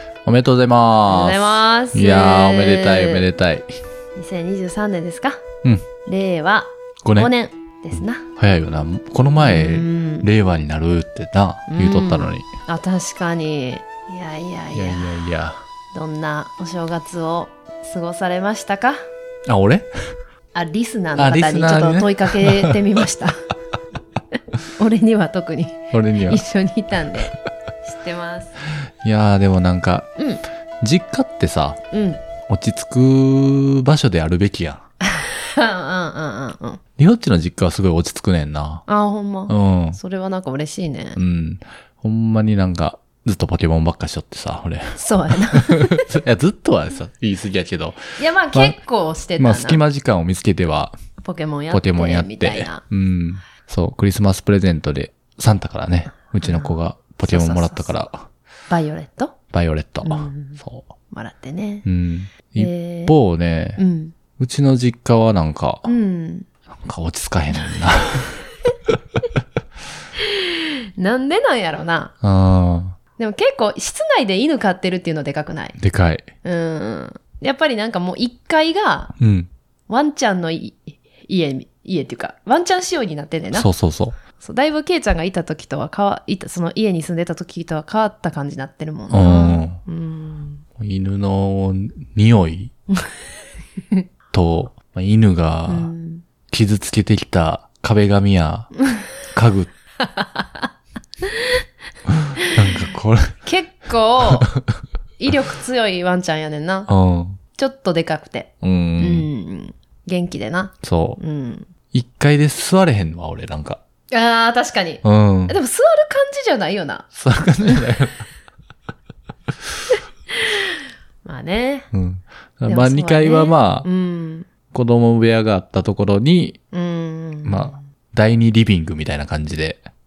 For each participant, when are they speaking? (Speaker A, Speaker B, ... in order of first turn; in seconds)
Speaker A: 0.2-3.7, 7.0-7.3, 8.4-12.5, 14.7-15.6, 19.4-19.9, 21.2-22.8, 25.9-26.4, 29.0-30.1, 30.8-31.8, 32.5-34.8, 37.0-38.8, 39.5-40.0, 41.2-48.8, 49.4-51.0, 51.7-58.3, 59.5-60.9, 61.9-63.8, 64.4-65.9, 66.7-68.4, 72.2-73.0, 75.8-76.2, 79.2-79.5, 83.5-84.2, 89.1-89.8, 90.8-92.7, 94.3-95.9, 96.5-99.7, 102.1-103.3, 104.2-104.7, 106.9-107.4, 108.6-109.3, 110.8-111.2, 111.9-113.8, 115.0-115.6, 117.1-118.2, 121.9-123.9, 124.7-126.6, 127.5-129.8
Speaker B: 1.1-3.3, 4.2-5.4, 6.0-8.3, 9.4-10.3, 11.7-15.1, 15.9-19.0, 20.5-23.5, 24.8-27.3, 27.8-28.6, 31.9-32.2, 35.0-36.8, 38.9-41.2, 45.0-46.1, 48.2-49.8, 51.2-52.8, 56.4-57.9, 58.7-59.4, 60.0-61.9, 62.6-63.1, 63.8-64.1, 65.8-66.5, 70.2-72.1, 73.2-75.8, 76.4-79.1, 79.9-83.7, 84.4-90.6, 95.7-96.2, 100.1-100.7, 102.4-102.9, 103.4-104.5, 105.2-106.9, 107.5-111.7, 114.1-117.0, 120.3-121.9, 122.7-124.5, 126.7-127.8